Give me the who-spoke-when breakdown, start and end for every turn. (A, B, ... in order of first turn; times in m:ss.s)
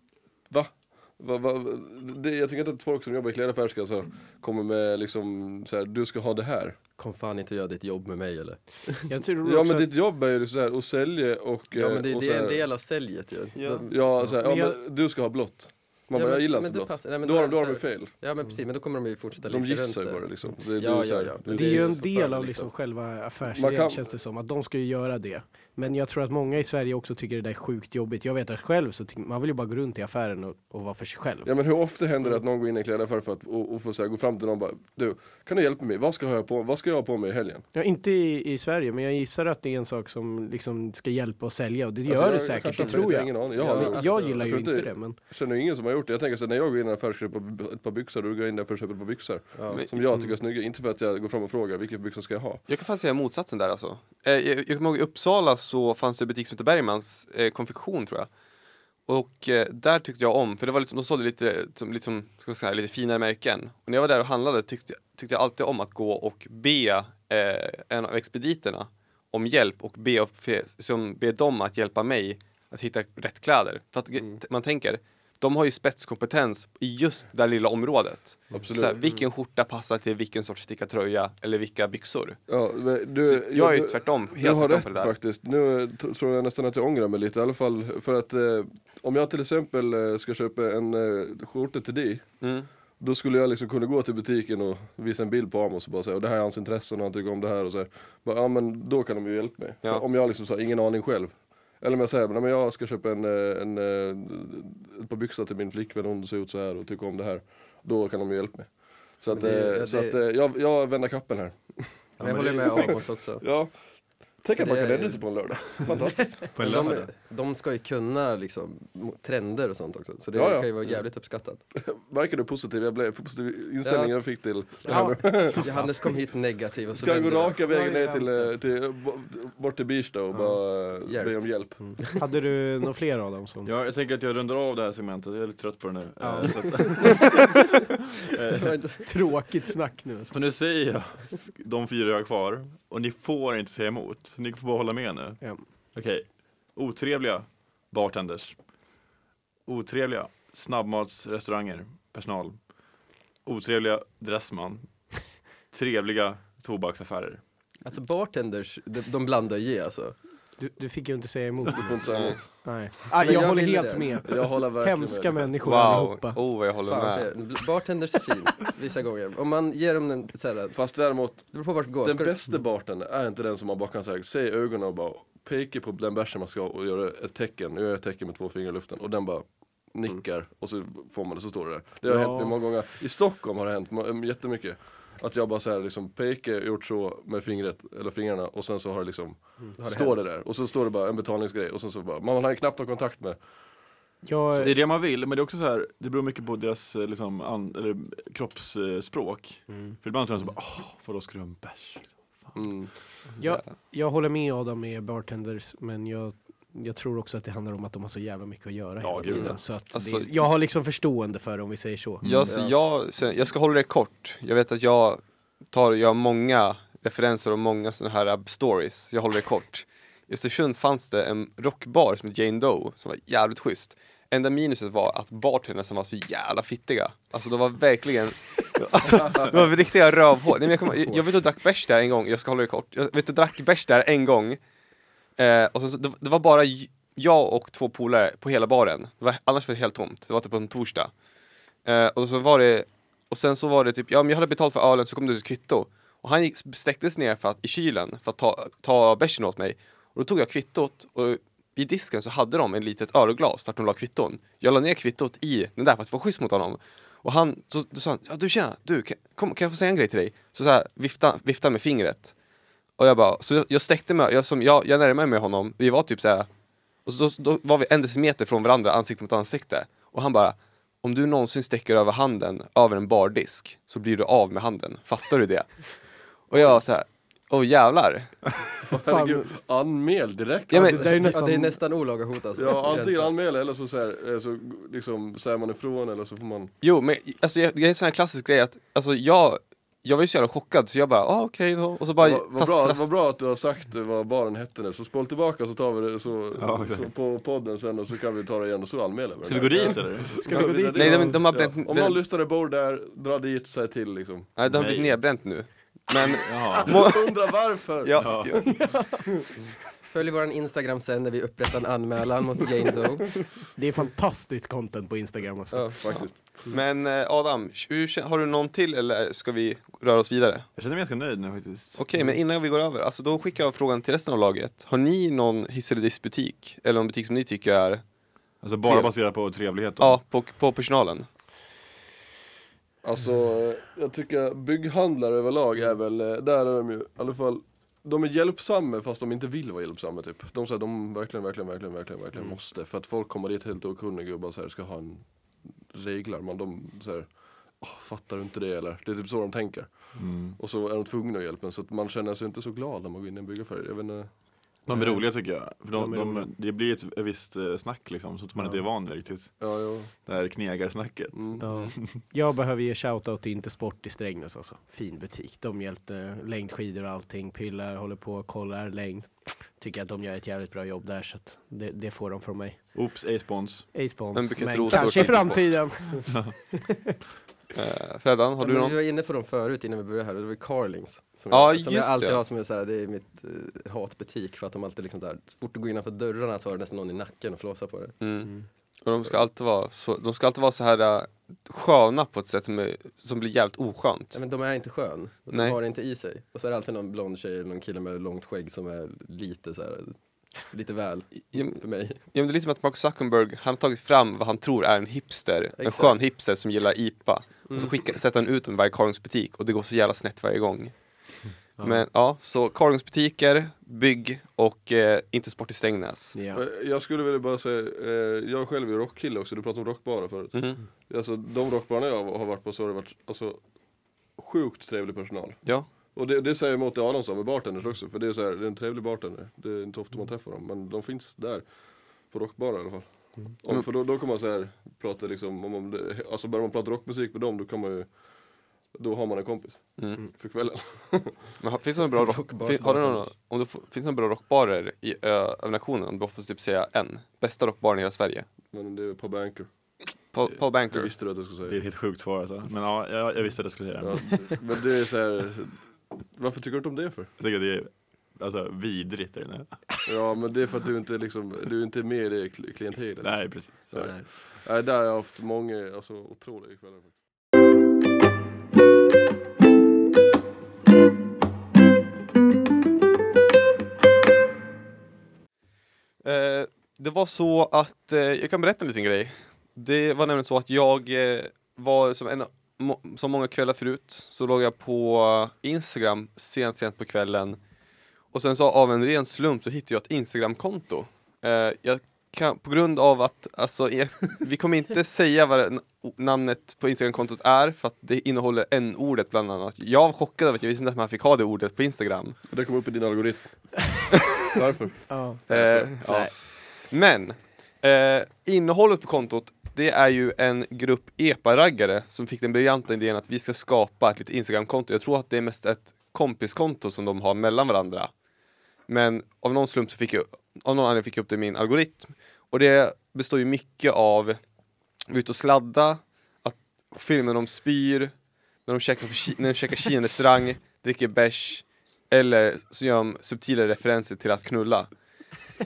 0:00.5-0:06.8 A
0:07.0-0:08.9 B
0:09.1-0:09.9 C
0:09.4-0:12.6 A
0:11.7-0:14.3 B
0:13.6-0:13.9 D
0:13.9-0:18.1 A
0:14.2-0:14.8 C
0:16.1-0:22.7 B
0:19.4-0:22.2 A
0:21.5-0:31.5 C
0:23.5-0:24.1 A
0:31.4-0:37.6 A
0:37.8-0:45.2 C
0:42.1-0:52.6 A
0:43.5-0:44.5 B
0:49.6-0:49.8 B
0:52.7-0:58.3 D
0:59.1-1:22.4 D
1:18.5-1:19.2 A
1:22.5-1:32.3 A
1:23.2-1:25.1 D
1:32.4-1:32.7 D
1:33.0-1:53.7 A
1:49.3-1:50.2 B
1:52.2-1:52.9 E
1:52.2-1:53.4 B
1:54.4-1:56.9 A
1:54.6-1:55.2 B
1:56.6-1:57.1 E
1:56.6-2:01.6 B
2:00.3-2:01.0 A
2:01.8-2:05.8 A
2:03.8-2:04.2 B
2:04.8-2:07.6 B
2:04.9-2:06.2 C
2:06.9-2:12.0 A
2:07.6-2:08.5 C
2:11.0-2:12.2 B
2:11.9-2:13.7 C
2:13.6-2:17.8 E
2:16.2-2:17.2 C
2:18.3-2:18.7 E
2:18.6-2:19.1 B
2:19.0-2:20.4 C
2:20.3-2:28.6 E
2:29.7-2:32.6 E
2:33.4-2:37.4 E
2:37.8-2:40.2 B
2:40.6-2:46.4 C
2:41.7-2:42.7 A
2:42.1-2:42.4 D
2:43.2-2:44.3 B
2:44.2-2:45.6 A
2:45.6-2:47.3 D
2:46.9-2:50.8 B
2:50.7-3:13.4 A
2:51.4-2:52.4 B
3:09.8-3:10.3 B
3:14.2-3:14.8 C
3:14.6-3:22.6 E
3:19.7-3:20.0 C
3:22.5-3:22.9 A
3:23.4-3:23.7 D
3:23.4-3:32.3 C
3:29.0-3:29.6 E
3:29.9-3:30.3 D
3:32.2-3:32.5 E
3:32.2-3:54.6 D
3:32.5-3:32.7 B
3:55.4-4:01.1 D
4:01.8-4:22.3 D
4:23.0-4:26.5 D
4:27.0-4:38.5 D
4:38.8-4:41.3 A
4:38.9-4:39.5 C
4:40.7-4:41.1 D
4:40.7-4:41.8 C
4:40.9-4:43.3 B
4:42.6-4:46.7 A
4:46.8-4:53.1 D
4:52.2-5:04.6 A
4:56.6-4:57.1 E
4:59.4-5:00.7 E
5:00.3-5:01.4 C
5:00.9-5:02.2 D
5:04.6-5:07.4 D
5:04.6-5:05.4 E
5:06.3-5:07.1 E
5:06.8-5:08.5 A
5:08.0-5:08.9 D
5:08.2-5:08.8 E
5:08.6-5:09.3 C
5:10.0-5:13.4 B
5:13.8-5:16.1 C
5:15.7-5:16.6 A
5:16.7-5:20.7 D
5:20.8-5:22.2 E
5:22.0-5:28.0 D
5:28.6-5:30.2 E
5:28.8-5:29.1 D
5:30.0-5:31.3 D
5:33.0-5:45.3 A
5:45.8-5:54.3 A
5:50.2-5:50.6 E
5:54.9-6:02.2 E
5:54.9-5:56.5 C
5:58.6-5:58.8 C
5:59.6-6:00.1 A
6:01.3-6:01.6 A
6:01.6-6:13.1 C
6:13.0-6:14.0 E
6:13.9-6:17.2 C
6:14.3-6:16.1 D
6:17.7-6:19.0 D
6:18.6-6:28.2 B
6:21.5-6:22.4 D
6:28.2-6:28.5 D
6:29.0-6:34.4 D
6:34.3-6:42.2 B
6:35.5-6:35.8 D
6:41.5-6:51.0 D
6:45.8-6:46.2 B
6:51.8-6:52.0 C
6:51.8-6:56.4 D
6:56.3-6:56.6 C
6:56.5-7:03.6 A
7:00.5-7:00.8 D
7:04.4-7:11.7 A
7:05.6-7:05.9 D
7:12.2-7:18.1 A
7:18.9-7:21.6 A
7:20.0-7:20.2 D
7:21.6-7:28.5 D
7:22.1-7:23.3 B
7:28.7-7:29.7 A
7:30.3-7:31.1 D
7:30.5-7:31.8 A
7:31.6-7:34.7 E
7:34.0-7:37.3 A
7:37.4-7:40.0 E
7:40.1-7:47.2 A
7:43.2-7:44.2 E
7:56.2-8:07.6 D
8:08.3-8:22.4 D
8:22.5-8:25.1 A
8:25.1-8:26.3 C
8:25.5-8:38.1 D
8:38.9-8:44.4 D
8:45.1-8:48.1 D
8:48.6-8:54.9 D